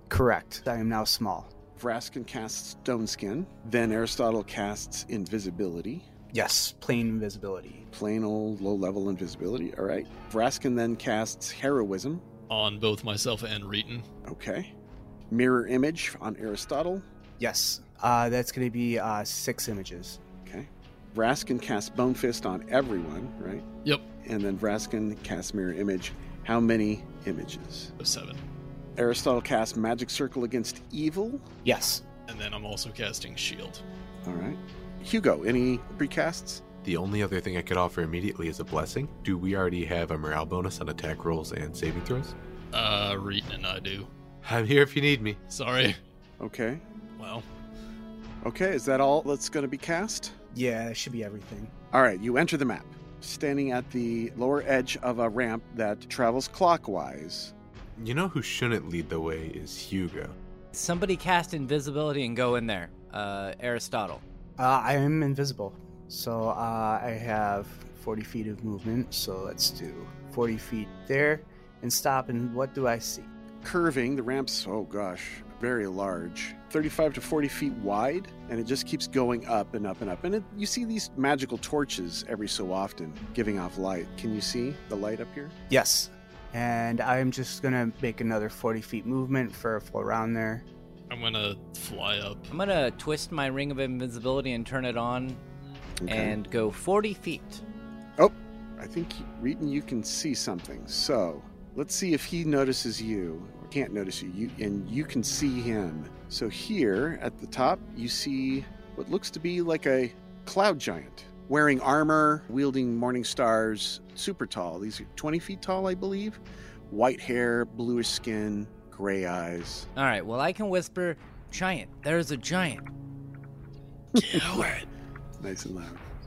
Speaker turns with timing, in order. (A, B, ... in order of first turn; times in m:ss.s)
0:00.1-0:01.5 A
0:01.8-0:06.1 B
0:06.3-0:07.9 A
0:07.9-0:12.2 B
0:12.5-0:14.0 C
0:14.3-0:14.7 B
0:15.3-0:17.1 B
0:17.4-0:20.2 A
0:20.4-0:23.6 B
0:24.2-0:27.9 B
0:28.0-0:28.4 C
0:29.0-0:31.5 B
0:31.6-0:32.0 A
0:32.3-0:33.8 C
0:34.2-0:36.6 B
0:36.8-0:42.4 D
0:42.7-0:44.1 C
0:44.4-0:45.4 D
0:45.5-0:46.0 C
0:46.4-0:46.8 B
0:47.2-0:47.5 C
0:48.4-0:50.4 B
0:50.5-0:51.7 A
0:51.9-0:57.5 B
0:58.0-1:00.4 D
1:00.7-1:04.2 E
1:04.6-1:13.3 A
1:13.6-1:25.6 B
1:25.7-1:30.6 A
1:31.1-1:32.5 C
1:32.5-1:35.4 E
1:36.0-1:36.4 B
1:36.1-1:37.6 E
1:38.2-1:59.9 B
2:00.0-2:02.9 E
2:04.2-2:04.5 B
2:04.2-2:04.9 C
2:05.4-2:06.0 B